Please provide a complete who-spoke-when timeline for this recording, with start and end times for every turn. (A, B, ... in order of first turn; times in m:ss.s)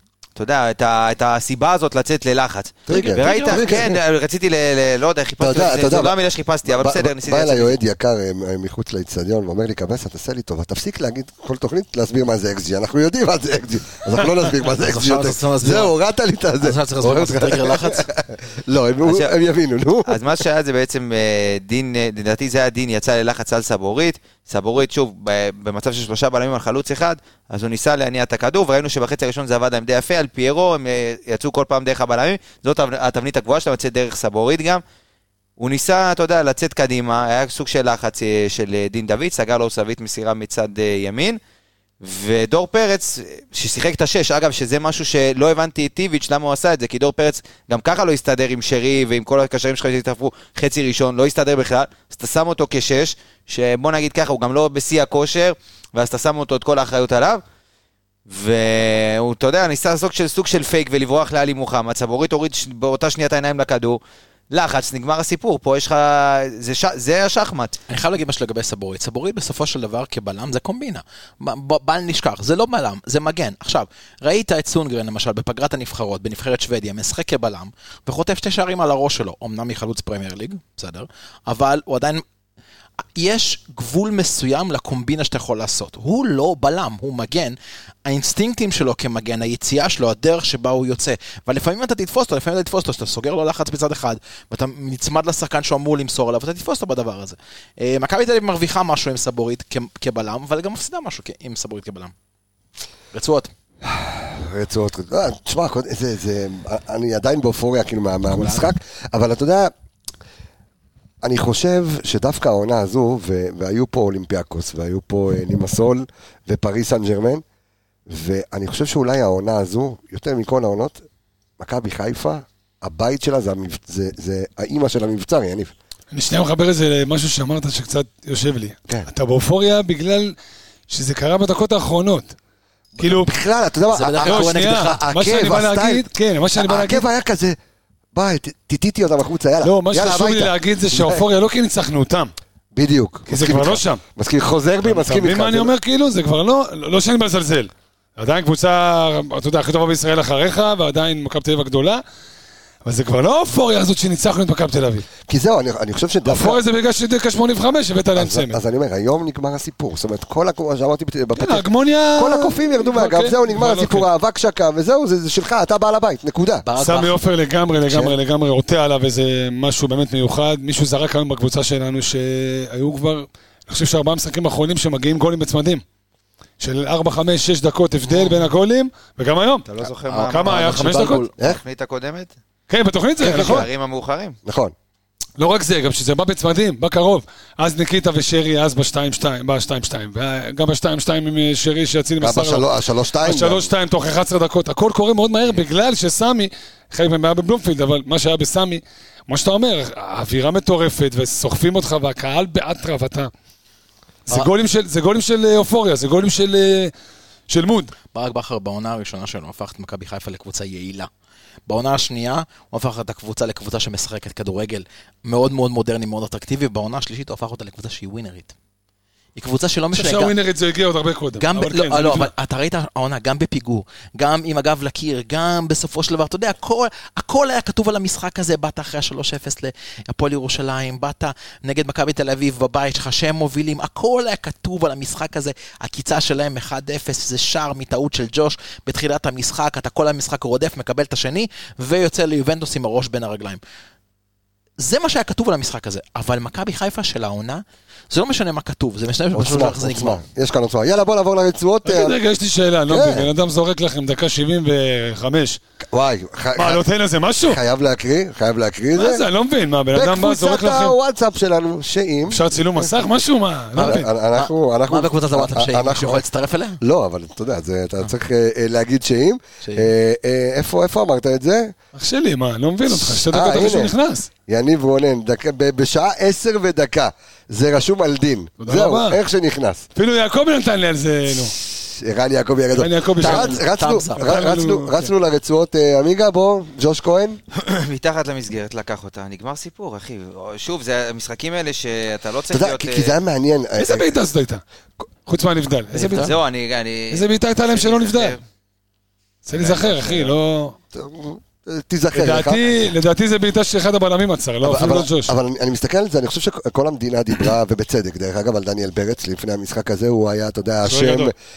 0:00.4-0:07.8 A
0:02.9-0:04.0 B
0:02.9-0:03.8 C
0:05.4-0:06.2 B
0:06.7-0:20.2 B
0:14.7-0:15.9 C
0:16.6-0:18.1 C
0:19.0-0:19.3 A
0:20.1-0:34.8 A
0:35.6-0:41.4 A
0:42.0-0:57.4 A
0:58.3-1:04.0 A
1:04.5-1:07.8 A
1:07.9-1:22.2 C
1:23.2-1:42.1 C
1:43.1-1:43.5 C
1:43.8-1:49.7 B
1:48.3-1:48.7 C
1:51.2-1:57.4 B
1:58.1-2:01.0 B
2:01.6-2:05.7 B
2:06.1-2:10.4 D
2:10.9-2:12.3 D
2:13.0-2:16.0 B
2:13.0-2:13.3 D
2:13.9-2:15.0 C
2:14.2-2:17.0 D
2:16.6-2:17.6 B
2:18.1-2:21.2 B
2:19.6-2:22.3 D
2:22.8-2:25.7 B
2:23.3-2:24.0 D
2:24.8-2:32.0 D
2:32.8-2:35.1 D
2:35.3-2:36.6 B
2:36.3-2:38.6 D
2:38.2-2:46.7 B
2:41.4-2:44.1 D
2:46.6-2:47.2 C
2:46.8-2:55.8 D
2:47.9-2:48.1 B
2:56.6-2:59.7 D
2:58.1-2:58.3 C
2:59.7-3:02.3 A
3:00.0-3:01.4 C
3:00.3-3:01.2 D
3:02.7-3:03.7 D
3:03.2-3:04.4 A
3:03.2-3:03.7 B
3:04.4-3:04.7 B
3:05.4-3:12.6 D
3:12.2-3:13.7 B
3:13.2-3:23.3 D
3:24.3-3:26.9 D
3:27.5-3:27.9 D
3:28.1-3:31.1 C
3:31.7-3:38.5 C
3:39.4-3:40.4 C
3:39.9-3:42.3 D
3:41.4-4:03.6 C
4:04.8-4:10.2 C
4:09.3-4:12.2 B
4:11.8-4:15.6 D
4:12.9-4:13.3 B
4:15.9-4:16.8 B
4:16.6-4:17.6 D
4:17.4-4:19.2 B
4:19.0-4:21.0 D
4:19.9-4:22.9 B
4:22.3-4:24.1 D
4:23.8-4:26.8 C
4:23.8-4:26.2 B
4:26.8-4:31.8 B
4:29.6-4:29.9 C
4:32.0-4:34.3 D
4:33.0-4:33.9 B
4:34.5-4:39.9 B
4:38.6-4:39.2 D
4:40.0-4:41.6 D
4:41.6-4:47.4 B
4:42.8-4:43.6 D
4:43.2-4:44.3 C
4:44.2-4:45.1 D
4:47.5-4:53.2 A
4:52.5-4:54.1 B
4:53.8-4:54.6 D
4:55.3-4:56.3 D
4:55.9-4:56.3 C
4:56.1-4:58.4 A
4:57.1-4:58.4 D
4:59.5-5:00.8 D
4:59.6-5:00.3 A
5:00.9-5:02.7 B
5:02.1-5:05.3 D
5:04.6-5:11.3 B
5:10.8-5:11.3 D